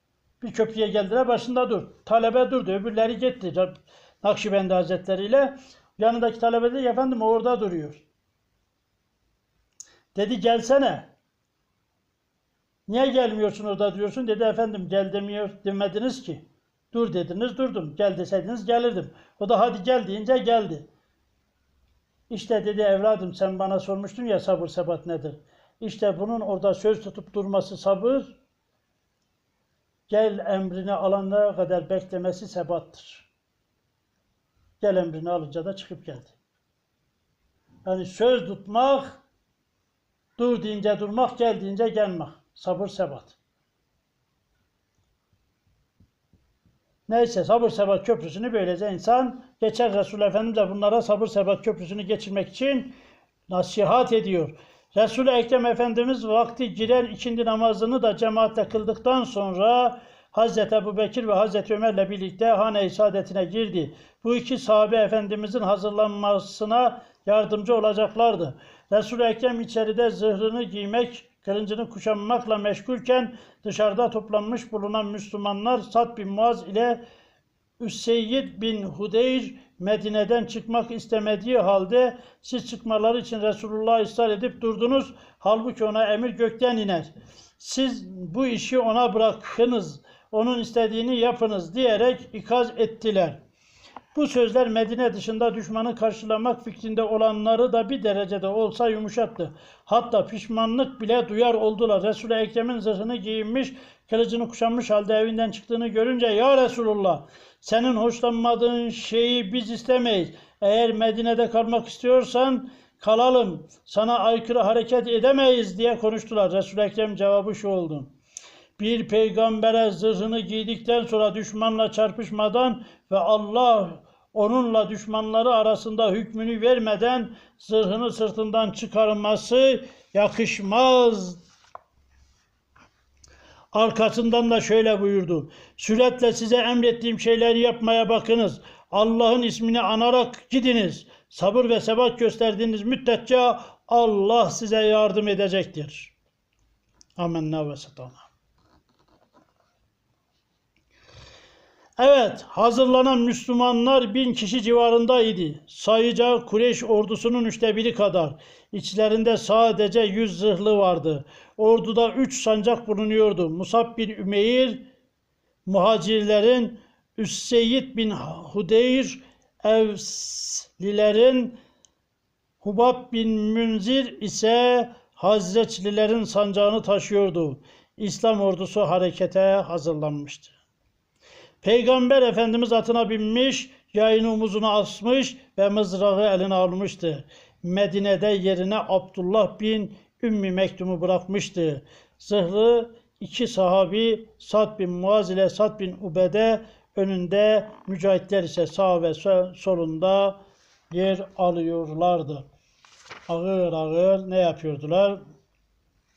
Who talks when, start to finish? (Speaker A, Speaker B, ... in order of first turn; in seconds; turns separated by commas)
Speaker A: 0.4-8.0, Speaker A: 10.1-11.1, Speaker A: 12.9-20.9, Speaker A: 22.3-28.3, Speaker A: 30.1-33.3, Speaker A: 34.8-36.4, Speaker A: 37.9-39.2, Speaker A: 40.4-43.4, Speaker A: 47.1-53.0, Speaker A: 53.5-77.0, Speaker A: 77.8-93.4, Speaker A: 94.1-118.1, Speaker A: 118.8-131.4, Speaker A: 133.7-146.1, Speaker A: 147.2-148.3, Speaker A: 152.0-164.8, Speaker A: 165.7-171.6, Speaker A: 172.6-180.6, Speaker A: 181.6-200.4, Speaker A: 200.9-202.4, Speaker A: 203.3-205.2